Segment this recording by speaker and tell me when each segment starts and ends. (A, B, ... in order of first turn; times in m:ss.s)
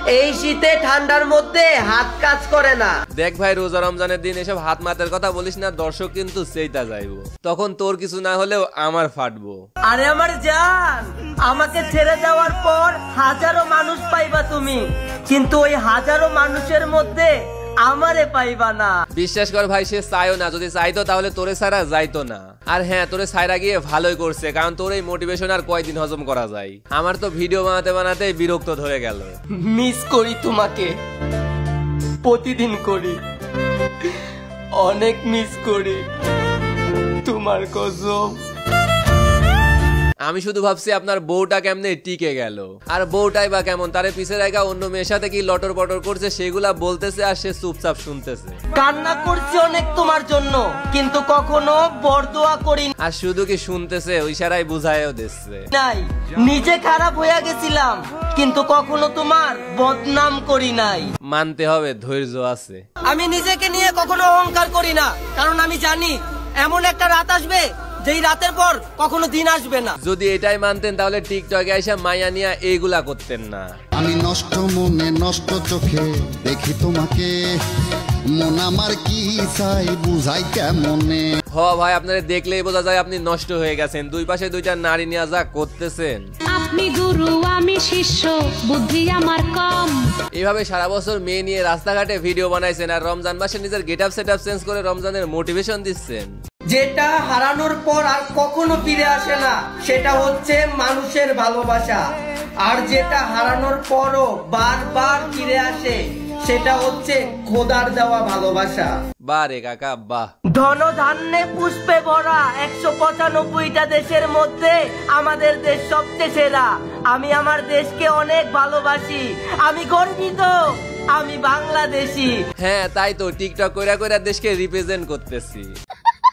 0:00.1-0:03.0 A
0:03.1-0:09.6 B
0:09.9-0:17.3 A
0:17.8-0:19.0 A
0:19.1-0:29.4 B
0:29.6-0:31.0 A
0:32.2-0:33.2 A
0:34.8-0:36.0 A
0:37.2-0:38.4 A
0:40.2-0:48.6 B
0:48.8-0:52.9 A
0:53.0-0:55.7 B
0:55.7-1:01.1 A
1:01.3-1:02.8 B
1:03.0-1:10.0 A
1:10.0-1:13.7 B
1:14.0-1:21.3 C
1:21.5-1:26.3 B
1:26.5-1:30.0 D
1:30.3-1:36.3 B
1:36.7-1:42.0 A
1:42.6-1:48.9 A
1:49.2-1:50.3 B
1:50.5-2:00.6 A
2:01.1-2:02.4 A
2:02.6-2:05.7 B